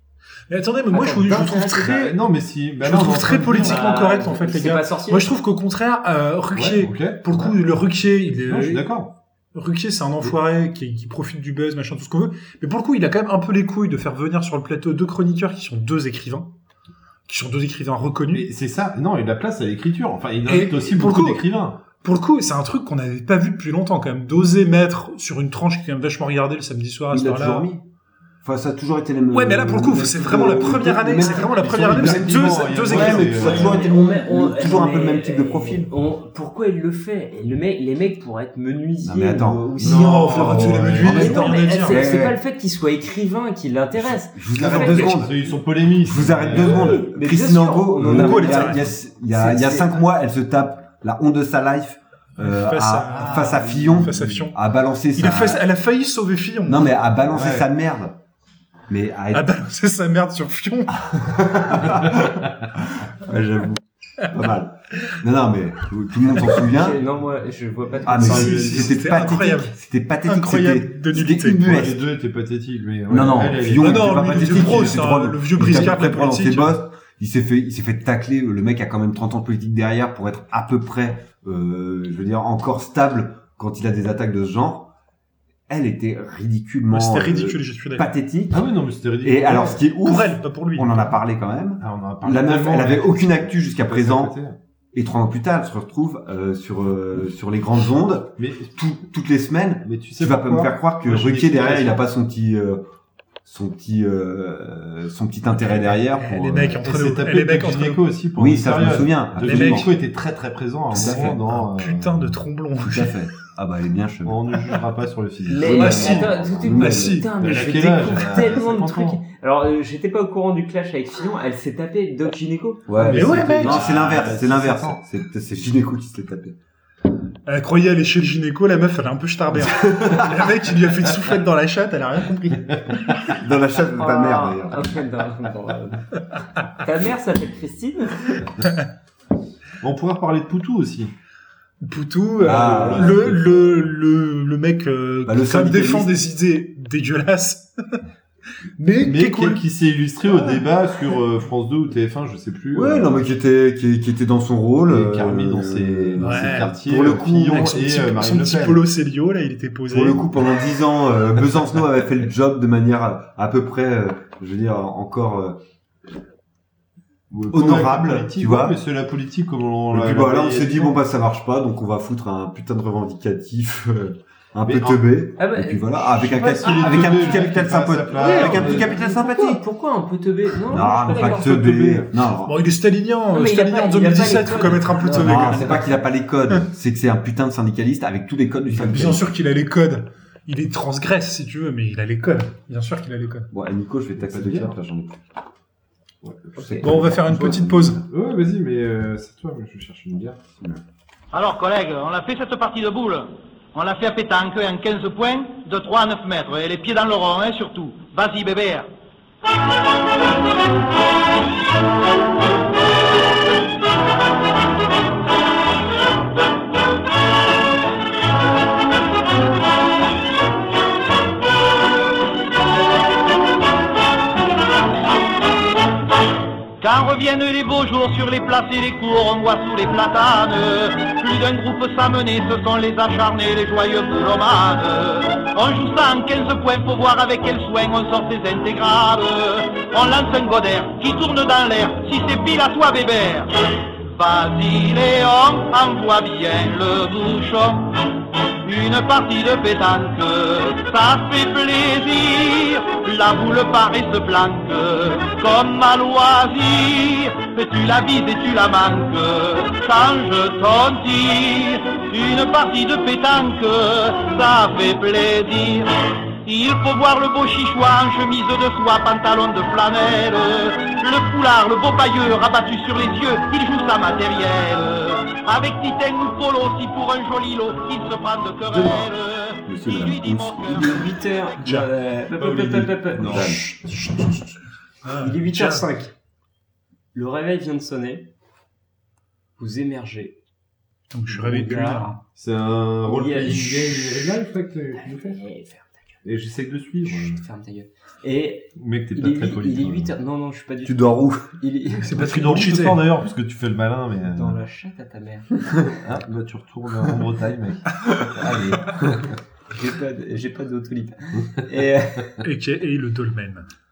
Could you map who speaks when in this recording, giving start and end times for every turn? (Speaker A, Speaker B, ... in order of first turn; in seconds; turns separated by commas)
Speaker A: 0.5-2.2, Speaker B: 0.9-1.9, Speaker C: 1.8-4.0, Speaker A: 2.8-8.8, Speaker B: 3.6-5.3, Speaker C: 6.5-7.5, Speaker C: 8.5-9.1, Speaker A: 9.5-16.5, Speaker A: 17.3-18.5, Speaker C: 18.3-21.8, Speaker A: 20.5-21.4, Speaker A: 22.0-27.6, Speaker D: 27.1-27.8, Speaker D: 28.4-35.9, Speaker A: 29.3-33.5, Speaker C: 31.8-33.8, Speaker B: 33.3-45.1, Speaker D: 39.0-42.4, Speaker A: 39.8-42.0, Speaker C: 40.0-41.4, Speaker D: 44.0-45.3, Speaker C: 44.5-47.0, Speaker D: 46.0-55.6, Speaker B: 46.5-49.9, Speaker A: 48.0-48.9, Speaker A: 52.4-54.5, Speaker C: 53.1-54.2, Speaker A: 55.1-56.9, Speaker D: 56.7-58.2, Speaker C: 57.3-57.7, Speaker D: 58.9-59.5, Speaker A: 59.3-61.0, Speaker D: 61.0-62.5, Speaker D: 63.1-67.0, Speaker B: 66.6-68.8, Speaker D: 68.0-72.0, Speaker C: 68.1-69.0, Speaker A: 68.2-69.7, Speaker A: 70.2-71.9, Speaker C: 71.6-75.1, Speaker D: 73.1-84.9, Speaker A: 73.8-76.8, Speaker D: 85.7-88.6, Speaker A: 86.9-88.1, Speaker C: 88.5-89.8, Speaker D: 89.2-94.3, Speaker A: 90.0-91.1, Speaker C: 91.8-94.6, Speaker D: 94.9-102.8, Speaker C: 98.4-98.9, Speaker C: 99.8-102.0, Speaker D: 103.4-106.8, Speaker A: 106.1-108.0, Speaker C: 106.8-112.4, Speaker D: 108.4-109.9, Speaker A: 109.4-109.9, Speaker D: 110.9-111.3, Speaker A: 110.9-113.1, Speaker D: 112.9-114.4, Speaker C: 114.2-116.8, Speaker B: 115.5-123.1, Speaker D: 115.5-117.5, Speaker A: 115.7-116.2, Speaker A: 116.8-117.3, Speaker C: 117.4-119.2, Speaker D: 122.9-126.5, Speaker C: 123.0-125.0, Speaker A: 123.1-124.1, Speaker A: 127.5-132.8, Speaker D: 129.8-130.4, Speaker D: 133.2-135.0, Speaker B: 133.9-136.1, Speaker B: 136.7-138.4, Speaker C: 139.8-141.1, Speaker A: 141.8-147.8, Speaker D: 142.4-143.9, Speaker C: 142.5-143.3, Speaker D: 145.2-146.1, Speaker A: 148.8-149.6, Speaker C: 149.0-153.3, Speaker D: 152.7-157.8, Speaker C: 154.8-158.8, Speaker A: 156.2-156.7, Speaker A: 157.5-160.2, Speaker D: 159.9-165.6, Speaker C: 167.3-171.0, Speaker D: 167.3-168.8, Speaker D: 169.9-179.6, Speaker C: 174.7-175.1, Speaker B: 175.4-177.6, Speaker C: 176.1-178.9, Speaker B: 178.1-181.6, Speaker D: 180.7-182.6, Speaker C: 180.7-182.1, Speaker A: 182.4-185.8, Speaker B: 183.3-185.9, Speaker D: 185.1-189.2, Speaker A: 188.7-193.5, Speaker D: 193.5-195.2, Speaker C: 194.1-194.8, Speaker C: 196.2-196.6, Speaker D: 196.5-198.0, Speaker A: 196.8-198.0, Speaker C: 198.1-200.4, Speaker E: 201.3-208.9, Speaker E: 226.8-243.5, Speaker E: 244.0-247.9, Speaker E: 248.6-265.9, Speaker E: 266.4-281.0, Speaker D: 278.7-279.1, Speaker D: 279.6-281.1, Speaker B: 280.6-283.5, Speaker A: 281.6-281.9, Speaker C: 282.4-283.6, Speaker D: 283.2-283.6, Speaker A: 283.3-284.5, Speaker A: 285.0-285.8, Speaker B: 285.1-286.1, Speaker B: 287.1-288.3, Speaker B: 289.6-290.4, Speaker A: 291.1-292.2, Speaker B: 291.3-292.1, Speaker C: 292.4-295.4, Speaker B: 293.1-294.4, Speaker B: 294.9-296.2, Speaker C: 296.2-297.4, Speaker B: 297.1-302.2, Speaker C: 298.8-300.1, Speaker D: 300.8-301.5, Speaker A: 302.0-303.0, Speaker C: 302.1-304.6, Speaker B: 304.3-305.6, Speaker C: 306.0-309.3, Speaker B: 309.7-312.4, Speaker A: 312.4-313.7